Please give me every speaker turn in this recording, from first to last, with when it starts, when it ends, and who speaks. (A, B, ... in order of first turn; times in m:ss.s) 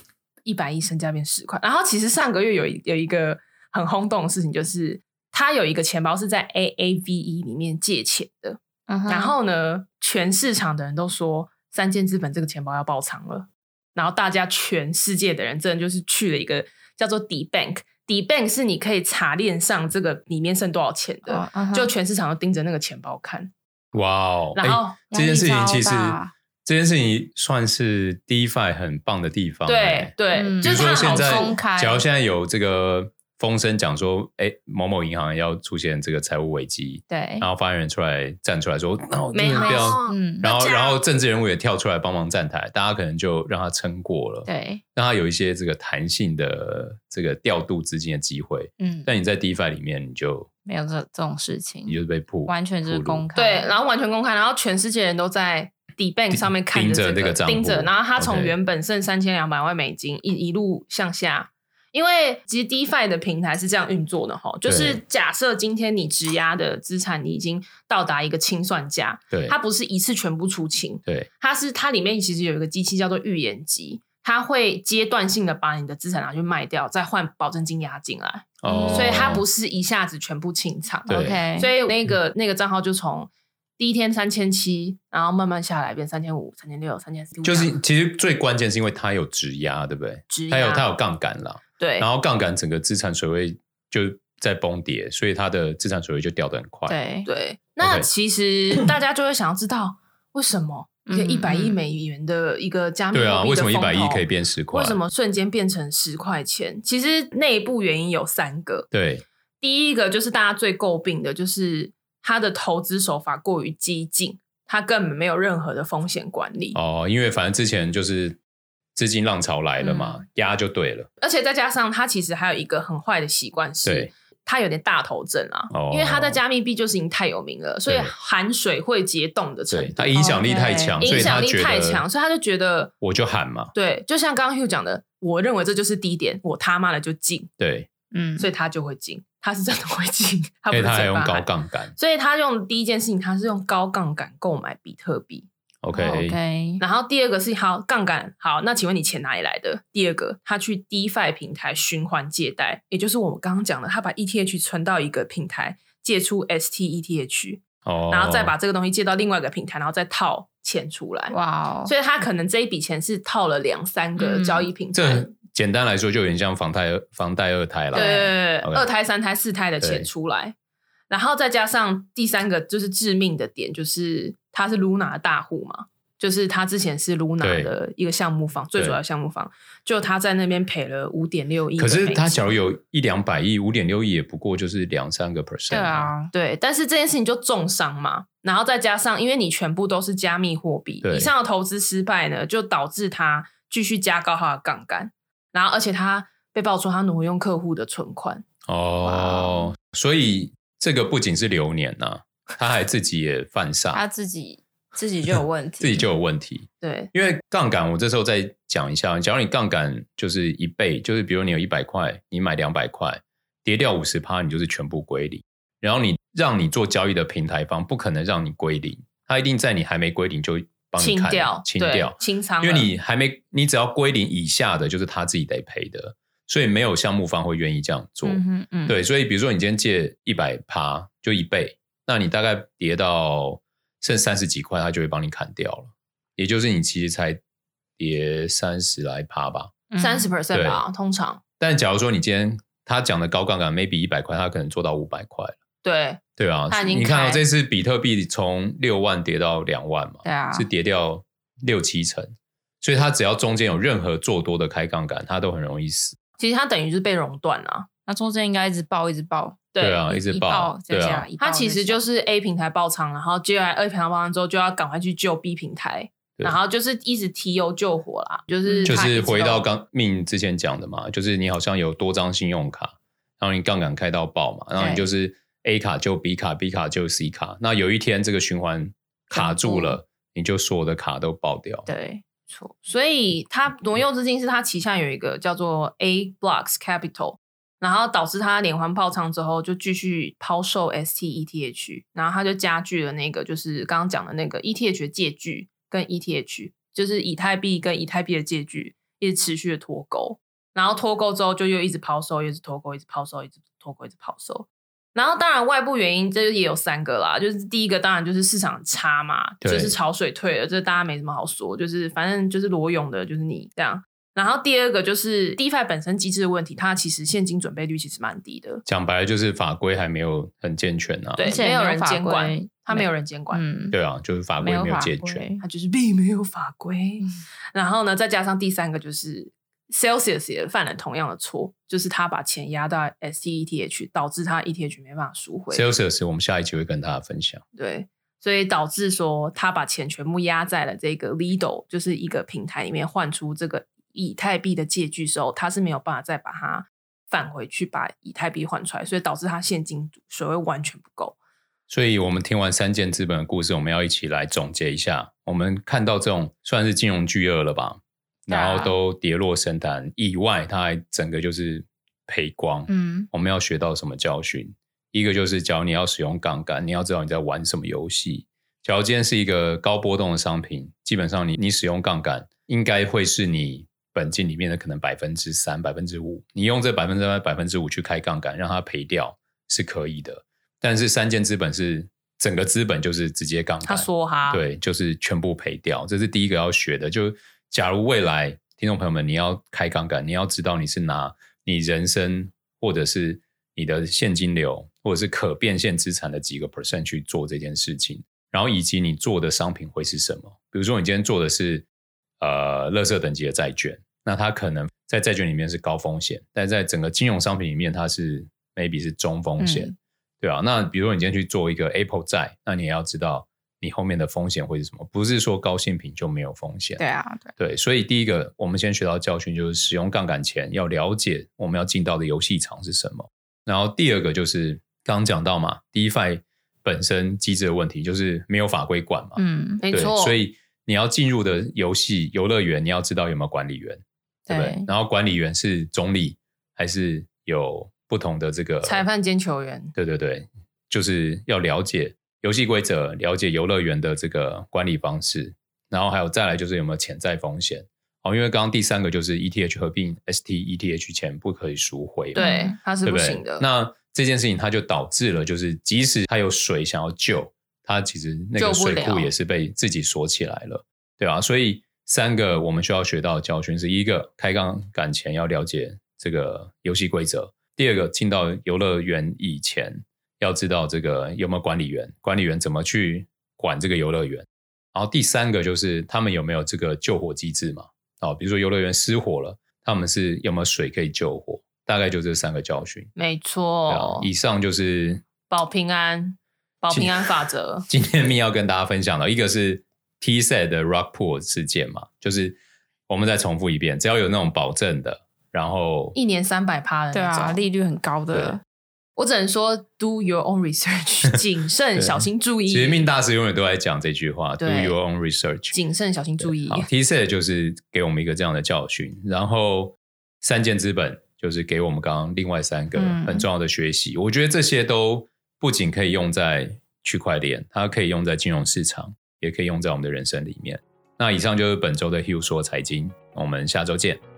0:00.4-0:23.5 A
0:08.9-0:09.3 B
0:21.3-0:21.9 B
0:23.9-0:50.5 C
0:24.5-0:25.0 A
0:25.1-0:26.3 B
0:29.6-0:31.6 A
0:30.3-0:32.0 B
0:37.1-0:37.5 B
0:39.3-0:41.0 A
0:39.5-0:40.4 B
0:44.4-0:44.8 B
0:48.8-0:49.1 B
0:50.6-0:53.7 B
0:51.8-0:53.2 C
0:53.3-1:27.7 A
0:56.3-0:58.6 C
1:04.6-1:05.0 C
1:09.3-1:09.6 C
1:18.6-1:19.4 C
1:18.7-1:19.3 B
1:21.1-1:21.7 B
1:21.1-1:21.4 C
1:27.4-1:37.0 C
1:30.3-1:30.8 A
1:31.8-1:32.0 A
1:36.9-1:37.3 B
1:37.2-1:48.9 A
1:37.8-1:38.1 C
1:41.0-1:41.8 B
1:43.1-1:45.0 C
1:48.9-1:49.2 C
1:49.6-1:56.8 A
1:56.7-1:58.4 C
1:58.9-2:01.1 C
1:59.8-2:00.2 B
2:01.2-2:12.9 A
2:03.8-2:04.1 C
2:05.7-2:06.4 C
2:07.9-2:08.1 C
2:09.7-2:12.0 C
2:10.2-2:11.1 B
2:13.0-2:13.7 C
2:13.7-2:17.5 A
2:17.6-2:17.9 C
2:18.1-2:18.5 B
2:18.4-2:25.5 A
2:20.7-2:21.9 C
2:25.8-2:26.4 C
2:25.9-2:26.8 B
2:26.8-2:45.3 A
2:37.8-2:38.5 C
2:41.3-2:41.9 B
2:44.2-2:44.7 B
2:44.9-2:48.8 C
2:47.9-2:48.3 B
2:47.9-2:50.6 A
2:49.8-2:50.1 C
2:51.1-3:02.5 A
2:57.4-2:57.7 C
3:01.8-3:06.1 C
3:05.7-3:06.3 B
3:06.3-3:18.4 A
3:11.0-3:11.3 C
3:18.7-3:24.0 C
3:19.2-3:19.6 A
3:23.9-3:26.0 B
3:25.8-3:57.4 C
3:26.8-3:27.1 A
3:41.0-3:42.9 A
3:48.2-3:49.0 B
3:58.0-3:59.8 C
3:59.9-4:00.3 B
4:00.0-4:01.4 A
4:00.5-4:00.8 C
4:01.6-4:05.6 C
4:05.8-4:07.4 A
4:06.4-4:16.2 C
4:10.2-4:10.7 B
4:16.4-4:17.9 A
4:18.1-4:22.0 B
4:19.7-4:20.2 A
4:19.8-4:21.3 C
4:21.4-4:29.7 A
4:28.6-4:28.9 B
4:28.8-4:41.9 C
4:34.8-4:35.1 B
4:39.3-4:40.0 B
4:41.9-4:42.6 B
4:42.7-5:18.8 A
5:09.6-5:10.0 C
5:18.8-5:21.4 C
5:21.4-5:23.6 A
5:21.4-5:24.0 B
5:23.9-5:25.4 C
5:24.6-5:25.6 B
5:25.6-5:35.8 A
5:35.7-5:37.6 C
5:37.7-5:51.4 A
5:51.9-6:41.8 C
5:58.5-5:58.9 B
6:02.9-6:03.3 B
6:23.8-6:24.6 A
6:42.4-6:57.0 C
6:49.6-6:49.9 B
6:57.0-6:57.5 B
6:57.6-7:19.0 C
7:09.4-7:09.8 B
7:09.8-7:10.4 A
7:14.5-7:14.9 B
7:18.8-7:19.9 A
7:20.0-7:32.4 C
7:32.3-7:32.8 B
7:32.3-7:33.6 A
7:33.0-8:03.1 C
7:38.6-7:39.3 A
8:03.2-8:04.3 A
8:03.9-8:05.2 C
8:05.5-8:07.8 A
8:06.9-8:07.2 C
8:07.9-8:12.6 C
8:13.1-8:16.2 C
8:16.1-8:17.6 A
8:17.1-8:18.6 B
8:19.2-8:23.1 A
8:22.0-8:25.8 C
8:24.6-8:25.0 A
8:25.7-8:26.9 A
8:26.4-8:44.2 C
8:32.9-8:33.5 B